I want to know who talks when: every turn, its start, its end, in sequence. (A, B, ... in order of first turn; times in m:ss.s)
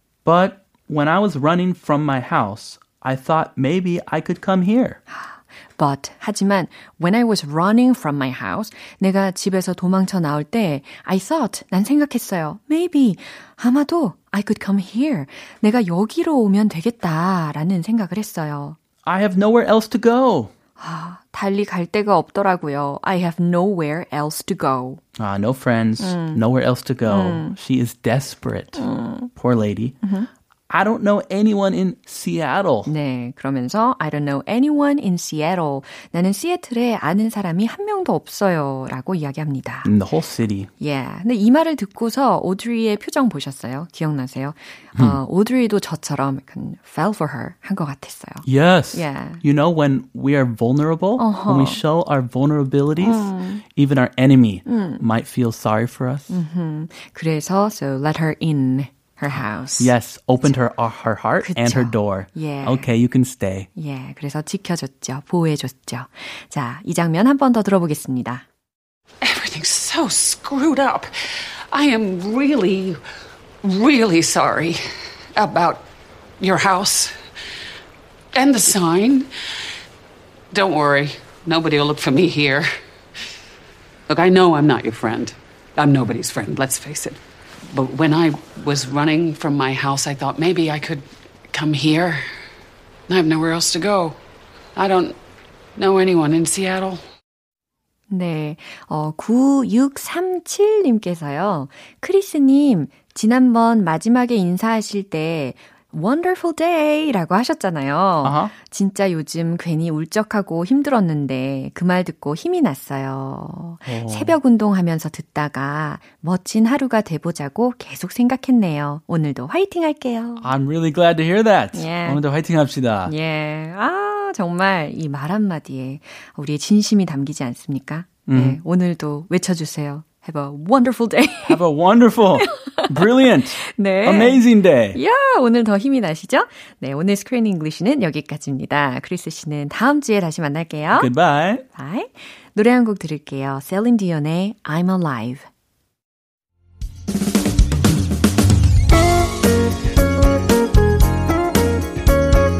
0:00.2-0:05.0 A
0:05.1-0:18.8 B
0:19.0-0:20.5 A
0:20.8-0:25.0 B
0:25.2-0:30.0 A
0:26.0-0:26.4 B
0:27.0-0:27.6 B
0:28.8-0:29.3 B
0:30.0-0:30.3 B
0:30.7-0:32.9 A
0:32.9-0:39.9 B
0:39.8-0:40.7 A
0:40.8-0:49.4 B
0:48.4-0:56.3 A
0:51.2-0:51.8 B
0:53.0-0:53.6 B
0:54.7-0:55.0 B
0:56.3-0:59.9 B
0:59.3-1:03.7 A
1:01.4-1:02.9 B
1:03.8-1:08.4 B
1:09.2-1:13.0 C
1:13.6-1:14.8 C
1:15.4-1:15.8 C
1:16.4-1:17.2 C
1:18.3-1:19.3 C
1:20.5-1:22.7 C
1:24.1-1:27.2 C
1:27.7-1:32.2 C
1:33.1-1:34.2 C
1:34.8-1:35.2 C
1:35.8-1:37.0 C
1:38.1-2:00.5 B
1:48.2-1:48.5 A
1:53.9-1:54.4 A
2:00.4-2:03.1 A
2:01.7-2:02.2 B
2:03.0-2:11.6 B
2:08.3-2:08.6 A
2:11.5-2:15.0 A
2:12.4-2:12.9 B
2:13.6-2:21.1 B
2:20.9-2:21.6 A
2:21.7-2:25.5 B